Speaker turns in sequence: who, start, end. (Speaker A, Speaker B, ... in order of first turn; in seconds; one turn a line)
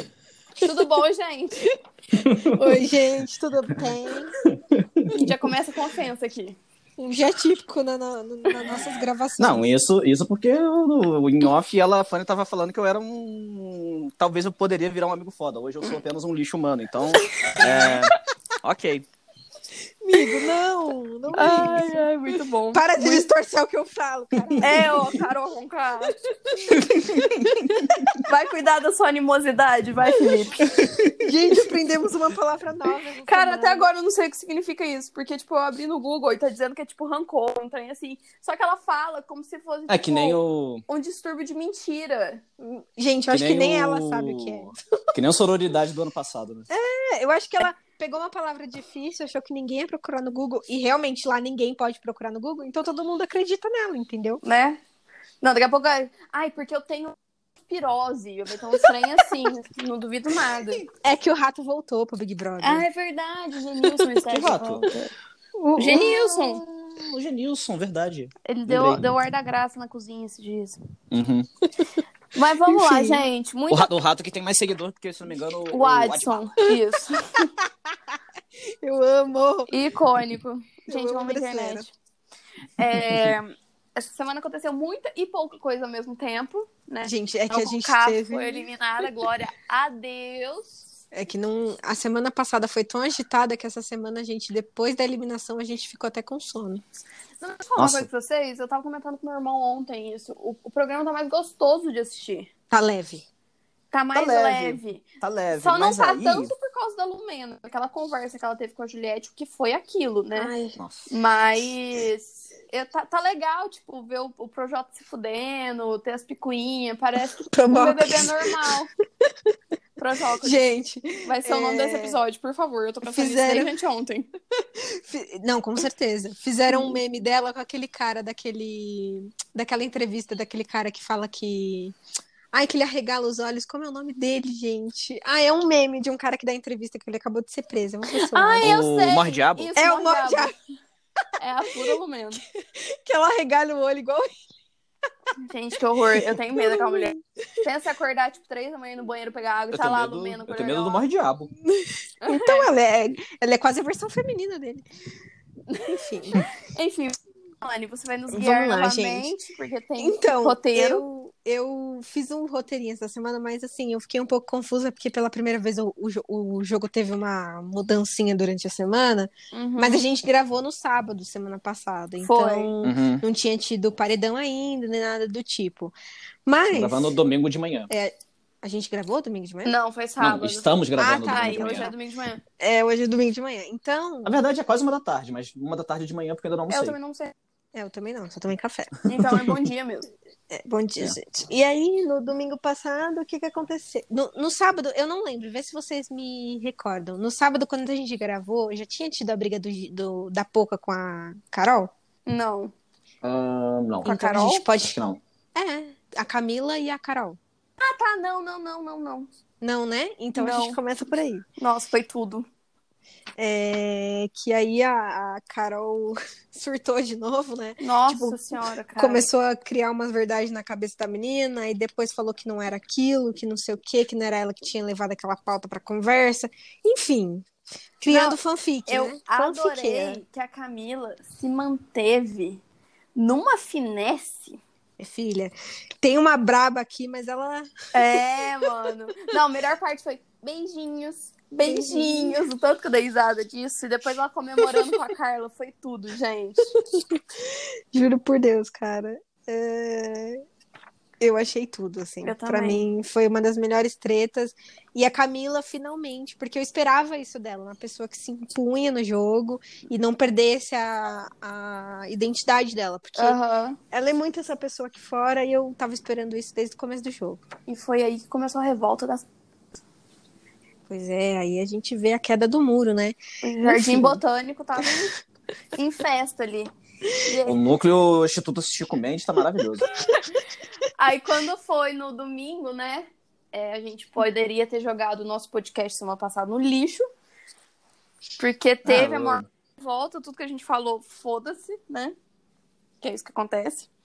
Speaker A: 0.6-1.7
Speaker B: 2.2-2.8
Speaker C: 2.4-4.4
Speaker B: 4.4-5.1
Speaker A: 5.1-6.6
Speaker C: 7.0-9.7
Speaker B: 9.4-19.1
Speaker A: 17.4-17.9
Speaker C: 17.6-18.0
Speaker C: 20.0-22.1
Speaker A: 21.3-23.2
Speaker C: 22.7-25.1
Speaker B: 24.4-24.6
Speaker A: 24.6-30.9
Speaker C: 26.6-27.8
Speaker B: 26.8-28.1
Speaker B: 30.8-31.1
Speaker C: 31.1-33.9
Speaker A: 33.3-42.4
Speaker B: 39.9-40.8
Speaker C: 42.6-44.7
Speaker B: 43.3-46.7
Speaker C: 46.7-54.4
Speaker A: 54.4-54.8
Speaker A: 55.4-60.8
Speaker C: 61.0-62.9
Speaker A: 62.6-65.1
Speaker B: 64.3-64.9
Speaker C: 65.6-66.2
Speaker A: 65.8-66.6
Speaker B: 65.8-69.0
Speaker A: 68.4-70.8
Speaker B: 71.1-71.5
Speaker A: 72.3-73.9
Speaker C: 72.7-73.2
Speaker B: 73.7-76.5
Speaker A: 75.7-77.5
Speaker C: 77.6-79.7
Speaker A: 79.7-81.9
Speaker C: 80.9-81.9
Speaker A: 82.8-90.8
Speaker C: 87.0-88.7
Speaker C: 91.1-96.8
Speaker A: 97.4-102.5
Speaker B: 97.8-98.1
Speaker C: 102.7-103.2
Speaker A: 103.9-110.5
Speaker B: 104.1-106.5
Speaker C: 110.3-110.8
Speaker B: 110.8-111.1
Speaker A: 111.1-118.9
Speaker C: 117.5-118.4
Speaker A: 120.0-120.6
Speaker C: 120.4-122.2
Speaker A: 121.2-124.3
Speaker C: 123.0-123.8
Speaker C: 124.7-131.9
Speaker C: 132.5-138.7
Speaker A: 138.1-140.5
Speaker B: 138.6-139.7
Speaker C: 139.8-140.5
Speaker A: 141.4-142.4
Speaker C: 141.6-141.9
Speaker C: 142.5-144.4
Speaker A: 145.4-151.0
Speaker C: 146.1-147.2
Speaker B: 149.7-151.5
Speaker C: 151.6-154.8
Speaker A: 152.2-152.7
Speaker A: 155.7-161.0
Speaker C: 155.8-156.4
Speaker C: 158.3-159.3
Speaker C: 160.0-177.2
Speaker A: 169.5-170.0
Speaker A: 172.2-172.7
Speaker B: 172.8-173.2
Speaker B: 176.7-177.9
Speaker C: 177.9-179.7
Speaker A: 179.6-182.4
Speaker B: 180.2-181.9
Speaker C: 181.0-181.9
Speaker C: 182.6-184.4
Speaker B: 184.2-186.9
Speaker A: 186.7-187.3
Speaker C: 187.7-189.0
Speaker A: 189.1-190.1
Speaker C: 190.5-201.9
Speaker A: 202.3-202.7
Speaker B: 203.2-204.2
Speaker C: 204.0-205.0
Speaker A: 204.0-204.6
Speaker B: 204.8-205.2
Speaker C: 205.5-207.4
Speaker A: 207.8-209.3
Speaker C: 209.6-211.4
Speaker A: 210.3-210.8
Speaker A: 211.6-212.5
Speaker C: 213.4-218.4
Speaker A: 217.8-219.3
Speaker C: 218.9-227.5
Speaker C: 228.0-230.2
Speaker A: 228.1-232.6
Speaker A: 233.2-234.6
Speaker C: 235.0-238.6
Speaker A: 237.9-246.7
Speaker C: 241.6-242.3
Speaker C: 246.7-250.4
Speaker C: 251.2-263.4
Speaker A: 252.2-252.8
Speaker A: 263.1-263.8
Speaker C: 263.9-267.4
Speaker A: 267.7-269.2
Speaker C: 270.9-274.2
Speaker A: 273.4-275.2
Speaker A: 275.7-276.7
Speaker A: 277.2-277.6
Speaker B: 277.4-279.9
Speaker C: 279.9-280.3
Speaker A: 279.9-280.4
Speaker A: 280.9-287.1
Speaker A: 288.4-292.1
Speaker B: 288.9-289.4
Speaker A: 293.0-293.9